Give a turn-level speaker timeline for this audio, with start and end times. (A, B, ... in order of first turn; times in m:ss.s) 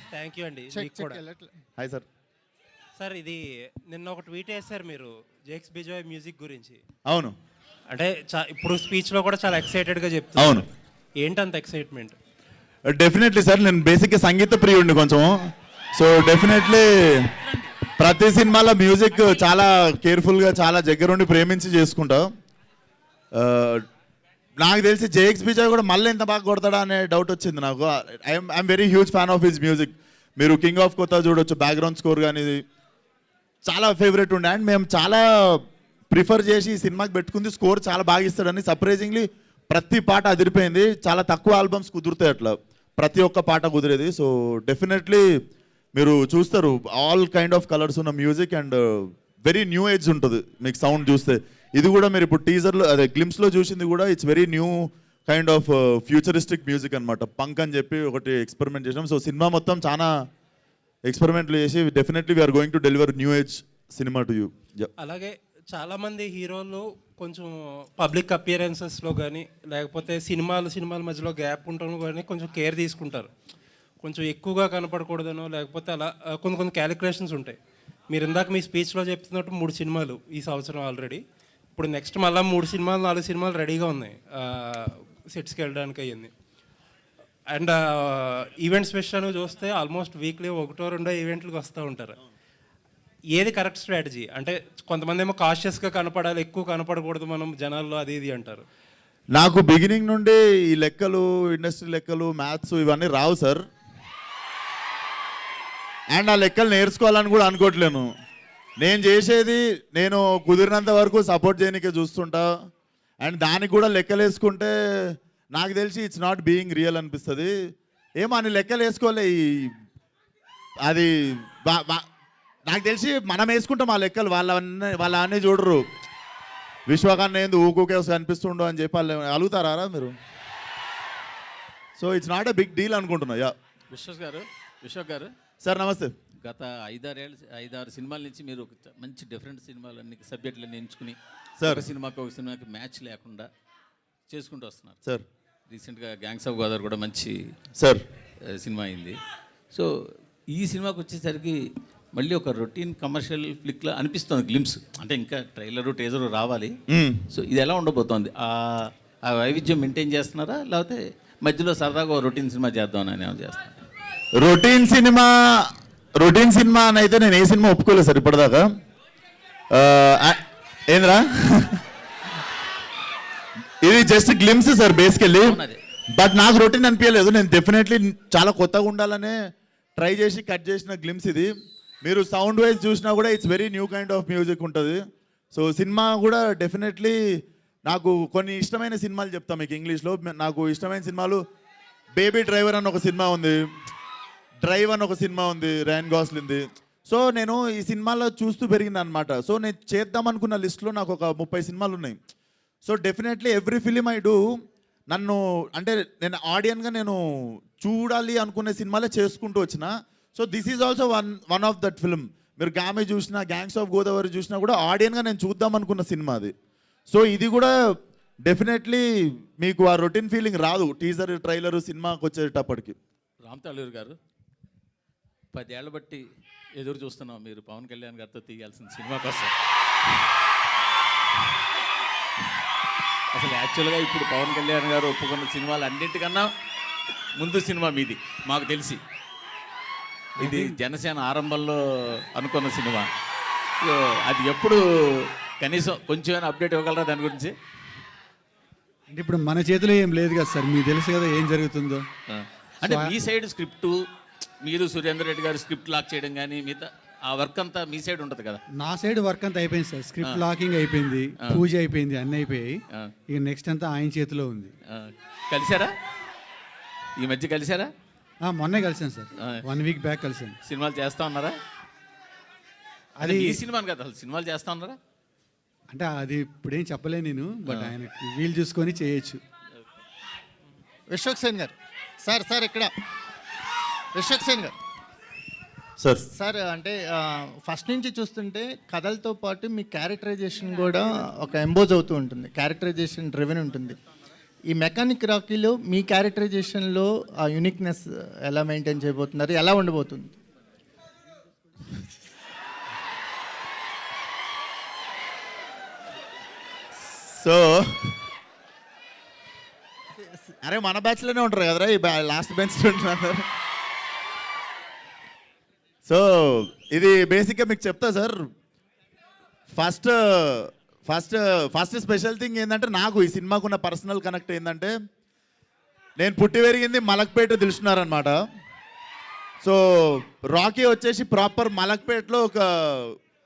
0:00.1-0:01.2 A
0:00.7-0:01.5 B
0:01.8-0:02.1 C
0:03.0-0:06.8 A
0:07.1-0:07.4 C
0:07.9-0:10.6 A
0:10.4-0:10.7 C
0:11.2-0:12.2 A
0:12.9-0:15.3 C
0:16.0-0:17.3 C
0:18.0-0:22.3 C
0:23.3-0:23.8 C
0:24.6-0:32.6 C
0:33.7-0:45.3 C
0:46.0-1:00.1 C
1:01.1-1:04.9 C
1:05.0-1:13.3 A
1:14.0-1:17.6 A
1:18.1-1:21.2 A
1:21.8-1:26.3 A
1:27.5-1:32.2 A
1:33.3-1:38.6 A
1:39.4-1:43.6 C
1:46.1-1:48.1 C
1:48.8-1:52.5 C
1:53.2-1:57.5 C
1:58.2-1:59.7 C
2:00.9-2:02.0 C
2:02.7-2:05.8 C
2:06.9-2:10.2 C
2:12.0-2:13.5 C
2:13.9-2:15.3 D
2:15.6-2:16.1 C
2:16.4-2:23.5 D
2:21.6-2:21.8 C
2:24.3-2:25.0 D
2:25.7-2:27.4 D
2:28.5-2:29.2 D
2:30.5-2:31.6 D
2:32.2-2:36.7 D
2:36.9-2:37.2 C
2:37.3-2:43.8 D
2:44.4-2:48.7 C
2:49.7-2:50.4 C
2:50.9-2:51.8 C
2:53.8-2:55.6 C
2:55.5-2:55.8 D
2:56.2-2:59.4 C
3:00.0-3:01.5 C
3:02.0-3:05.0 C
3:05.5-3:07.2 C
3:07.8-3:11.4 C
3:12.2-3:13.6 C
3:14.6-3:22.2 C
3:22.8-3:24.4 C
3:25.1-3:27.2 C
3:27.8-3:36.5 C
3:37.1-3:37.7 C
3:38.4-3:39.1 C
3:39.6-3:43.0 C
3:43.4-3:44.2 D
3:45.5-3:46.2 D
3:46.8-3:49.5 D
3:53.3-3:56.5 D
3:57.4-3:59.0 D
4:00.4-4:03.1 D
4:00.4-4:00.8 E
4:03.8-4:07.5 D
4:09.1-4:12.1 E
4:12.3-4:14.0 D
4:12.8-4:13.1 E
4:14.6-4:18.6 D
4:18.8-4:24.7 E
4:24.9-4:25.9 D
4:27.2-4:27.9 D
4:28.4-4:30.6 E
4:30.6-4:31.6 D
4:33.2-4:33.6 E
4:33.2-4:35.0 D
4:35.9-4:39.4 E
4:37.7-4:37.9 D
4:41.1-4:42.9 B
4:44.1-4:44.8 B
4:46.0-4:46.3 C
4:46.3-4:54.0 B
4:54.7-5:00.4 B
5:07.3-5:08.1 C
5:10.2-5:10.4 B
5:10.6-5:13.4 C
5:16.1-5:18.4 C
5:19.7-5:24.9 C
5:26.2-5:28.4 C
5:29.6-5:33.2 C